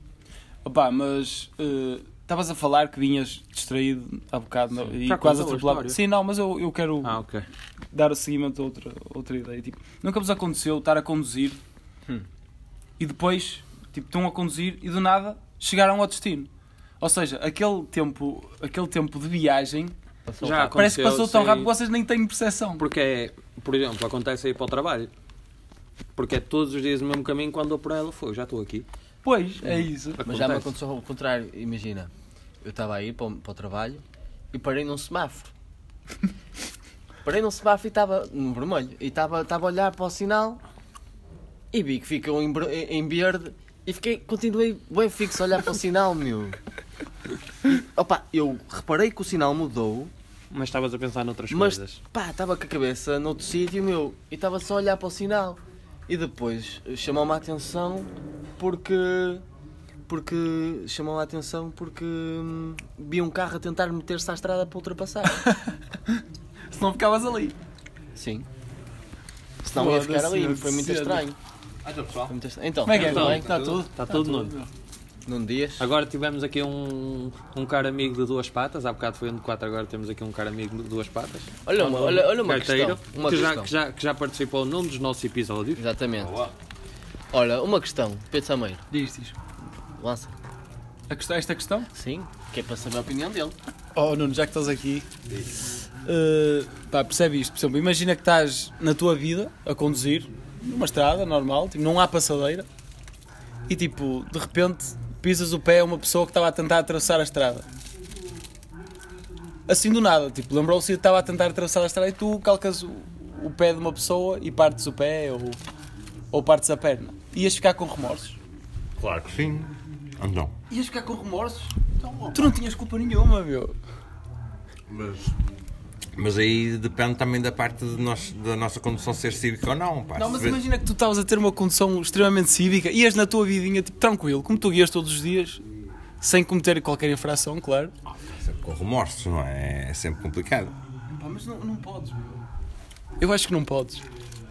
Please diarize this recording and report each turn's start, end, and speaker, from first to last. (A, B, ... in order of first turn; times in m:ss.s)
0:00.6-0:07.2 A
0:04.9-0:06.0 B
0:07.0-0:07.4 B
0:07.9-0:11.6 A
0:13.0-0:16.5 A
0:17.0-0:19.9 A
0:20.2-0:20.7 C
0:20.4-0:21.7 B
0:20.6-0:22.8 A
0:22.8-0:25.1 B
0:26.2-0:28.8 B
0:29.2-0:30.2 A
0:29.6-0:32.1 C
0:30.2-0:30.7 B
0:32.6-0:35.5 C
0:37.2-0:40.6 C
0:41.7-0:46.6 C
0:47.6-0:50.1 C
0:50.5-0:52.0 B
0:51.5-0:59.4 C
1:00.1-1:05.4 C
1:05.2-1:07.6 A
1:08.2-1:08.5 C
1:09.6-1:11.4 C
1:09.7-1:11.2 A
1:11.8-1:12.3 D
1:12.3-1:13.5 C
1:12.8-1:14.7 A
1:12.9-1:14.6 B
1:15.2-1:15.9 C
1:15.8-1:25.8 B
1:21.6-1:23.7 C
1:25.8-1:26.3 C
1:26.2-1:26.5 D
1:27.3-1:28.8 C
1:28.9-1:29.4 A
1:30.0-1:30.3 C
1:31.1-1:31.9 A
1:31.9-1:33.6 C
1:33.9-1:35.1 A
1:36.0-1:42.6 A
1:43.7-1:47.7 A
1:49.7-1:55.6 A
1:56.3-1:58.4 A
1:59.0-2:00.5 D
2:00.7-2:03.7 A
2:04.9-2:05.4 D
2:06.2-2:10.6 D
2:10.2-2:15.6 A
2:16.2-2:17.9 A
2:18.1-2:20.8 D
2:21.1-2:22.4 A
2:23.2-2:24.0 A